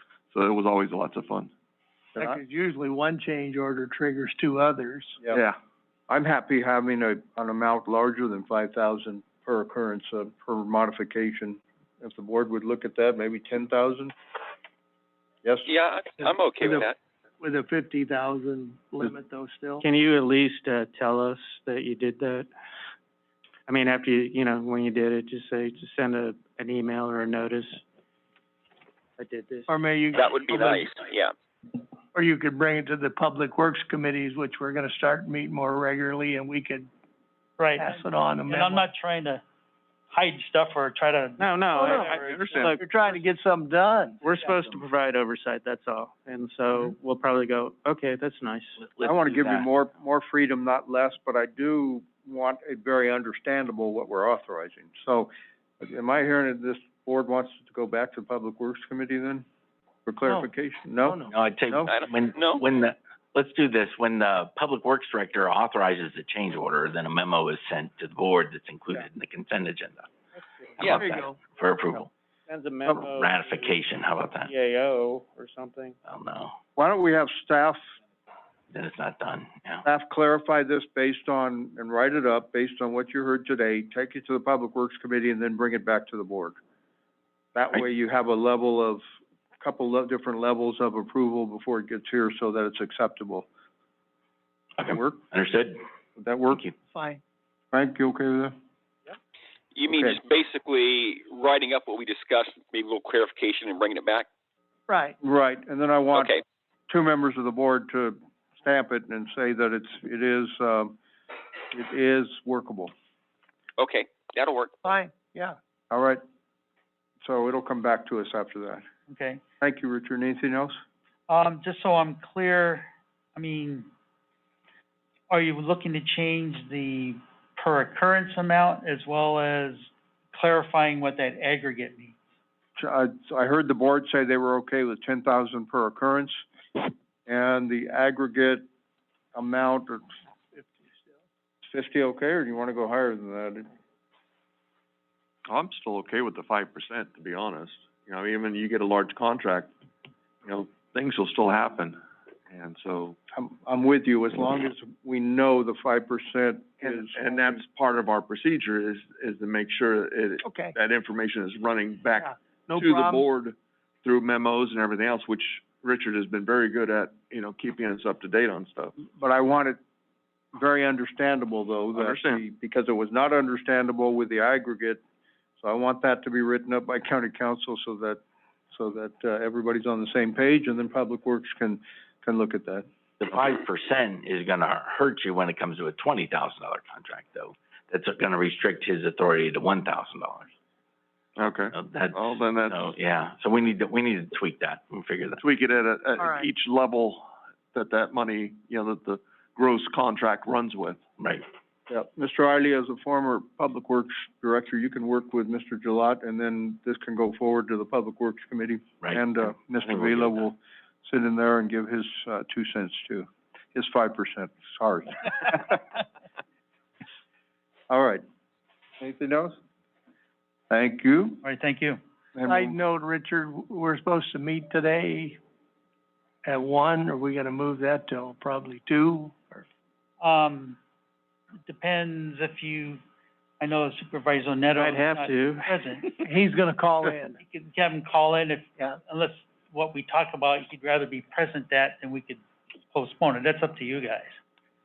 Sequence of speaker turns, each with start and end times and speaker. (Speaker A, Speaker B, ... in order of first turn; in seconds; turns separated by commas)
Speaker A: 0.3-1.5, Speaker B: 2.2-2.4, Speaker C: 2.3-5.1, Speaker A: 5.3-5.6, Speaker B: 6.1-14.1, Speaker D: 15.7-17.0, Speaker C: 17.4-19.8, Speaker E: 19.8-22.5, Speaker E: 23.7-27.8, Speaker E: 29.2-29.7, Speaker D: 30.1-31.3, Speaker C: 32.1-36.9, Speaker F: 37.6-39.4, Speaker C: 37.8-38.6, Speaker F: 40.1-43.2, Speaker E: 41.4-42.8, Speaker A: 41.9-42.8, Speaker C: 43.2-44.2, Speaker F: 44.2-44.6, Speaker E: 44.2-48.8, Speaker G: 48.8-49.7, Speaker B: 49.0-55.3, Speaker B: 55.8-59.5, Speaker B: 60.1-61.9, Speaker G: 61.3-70.1, Speaker D: 61.9-62.6, Speaker G: 70.8-72.1, Speaker D: 70.8-71.1, Speaker E: 72.5-73.7, Speaker G: 72.9-74.5, Speaker E: 74.5-75.9, Speaker G: 76.1-76.5, Speaker B: 76.8-77.8, Speaker G: 78.7-79.8, Speaker B: 79.8-86.6, Speaker B: 87.5-89.0, Speaker B: 89.6-93.5, Speaker G: 94.8-95.8, Speaker B: 94.8-95.2, Speaker B: 96.2-96.7, Speaker C: 96.9-97.2, Speaker B: 97.7-98.5, Speaker D: 99.8-104.3, Speaker B: 99.9-100.2, Speaker C: 104.9-105.1, Speaker B: 105.2-106.4, Speaker D: 106.1-106.4, Speaker B: 106.9-111.0, Speaker B: 111.7-112.9, Speaker D: 113.8-114.7, Speaker C: 114.9-115.5, Speaker B: 115.9-116.2, Speaker B: 117.2-118.8, Speaker F: 119.1-119.4, Speaker B: 119.6-120.8, Speaker F: 121.3-123.9, Speaker F: 125.3-132.2, Speaker B: 132.8-138.7, Speaker B: 139.3-140.0, Speaker B: 141.7-143.7, Speaker A: 145.5-149.7, Speaker A: 150.4-152.0, Speaker A: 152.5-153.2, Speaker B: 153.3-157.6, Speaker A: 156.8-169.0, Speaker B: 169.0-169.8, Speaker B: 170.5-175.0, Speaker A: 171.9-172.4, Speaker B: 175.6-178.2, Speaker B: 178.7-182.9, Speaker G: 183.2-190.5, Speaker A: 191.4-192.9, Speaker G: 191.7-195.4, Speaker A: 195.4-201.0, Speaker G: 201.2-201.4, Speaker B: 201.9-215.8, Speaker G: 209.0-210.4, Speaker B: 217.9-218.2, Speaker B: 219.0-219.6, Speaker B: 220.7-221.4, Speaker F: 221.4-222.0, Speaker B: 222.3-222.8, Speaker C: 222.8-225.4, Speaker C: 226.5-229.3, Speaker F: 230.2-230.8, Speaker F: 231.7-233.0, Speaker F: 233.6-236.2, Speaker E: 234.8-235.7, Speaker C: 236.6-237.3, Speaker F: 237.0-244.4